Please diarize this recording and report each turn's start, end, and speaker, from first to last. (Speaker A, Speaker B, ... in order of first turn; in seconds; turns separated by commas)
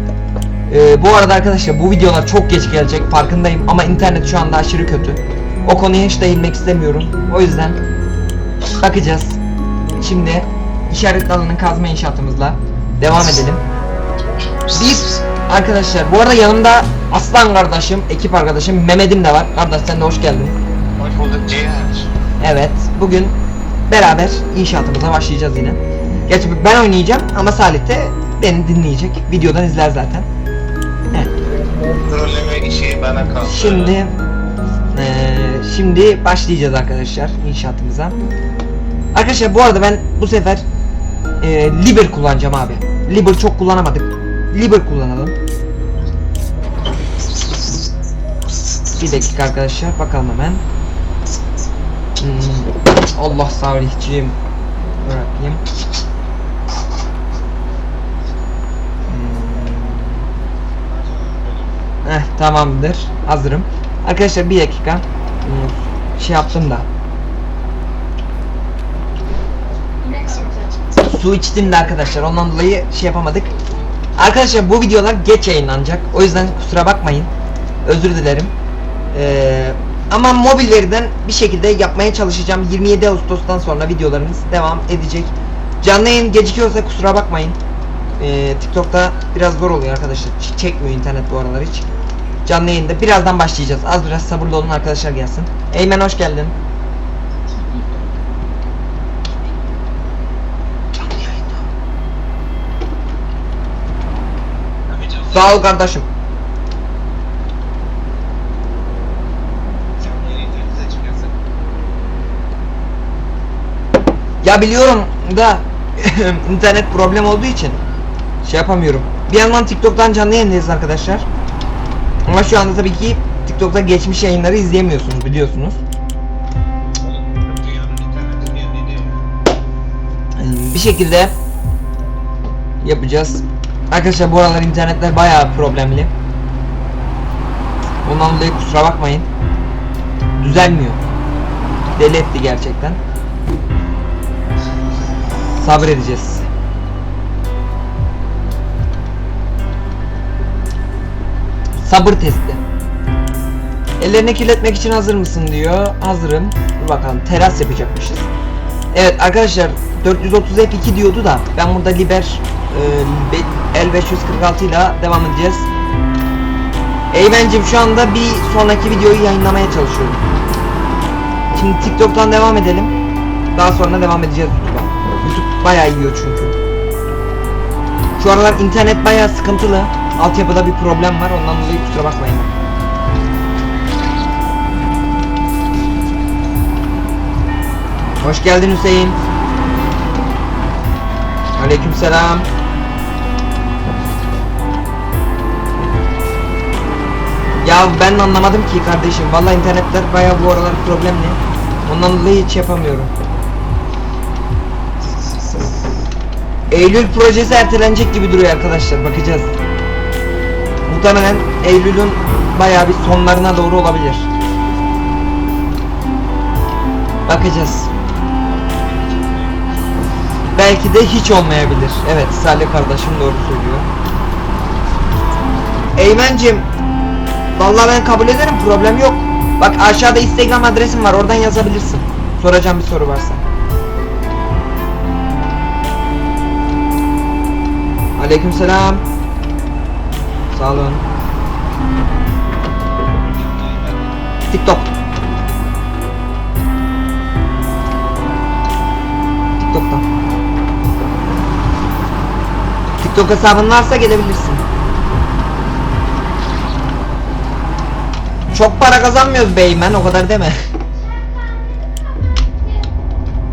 Speaker A: 0.7-7.8, Speaker A: 8.8-9.4, Speaker A: 10.0-13.6, Speaker A: 14.7-20.6, Speaker B: 21.0-22.1, Speaker A: 22.4-23.4, Speaker A: 23.9-30.3, Speaker B: 31.9-33.9, Speaker A: 33.4-34.1, Speaker A: 34.9-38.2, Speaker A: 39.1-40.6, Speaker A: 41.4-45.4, Speaker A: 48.9-50.6, Speaker A: 52.2-54.4, Speaker A: 55.0-55.6, Speaker A: 59.1-60.3, Speaker B: 60.9-61.8, Speaker A: 62.0-66.9, Speaker B: 70.0-71.0, Speaker A: 71.0-73.5, Speaker A: 74.2-77.3, Speaker A: 77.8-78.5, Speaker A: 79.1-87.6, Speaker A: 88.2-91.9, Speaker A: 92.4-96.5, Speaker A: 101.0-101.5, Speaker B: 104.9-105.7, Speaker A: 105.3-106.1, Speaker B: 110.0-111.3, Speaker A: 114.4-117.8, Speaker A: 118.4-121.3, Speaker A: 122.2-125.8, Speaker B: 127.0-129.2, Speaker A: 130.4-131.3, Speaker A: 132.8-136.1, Speaker A: 138.0-139.3, Speaker A: 140.4-141.0, Speaker A: 141.9-143.0, Speaker A: 145.5-146.4, Speaker A: 151.8-152.6, Speaker A: 154.0-158.3, Speaker A: 158.9-165.7, Speaker A: 167.1-170.2, Speaker A: 171.5-172.9, Speaker A: 173.5-176.5, Speaker A: 178.2-182.5, Speaker A: 188.2-189.2, Speaker A: 191.6-192.5, Speaker A: 197.6-203.1, Speaker B: 205.0-205.8, Speaker A: 206.7-209.5, Speaker A: 210.9-214.3, Speaker A: 217.2-217.9, Speaker B: 218.5-220.1, Speaker A: 220.6-223.9, Speaker A: 225.9-226.7, Speaker A: 227.6-233.4, Speaker A: 238.2-239.0, Speaker A: 240.5-241.1, Speaker B: 243.1-244.1, Speaker A: 244.5-244.9, Speaker A: 249.6-250.1, Speaker A: 253.0-254.6, Speaker A: 258.5-260.6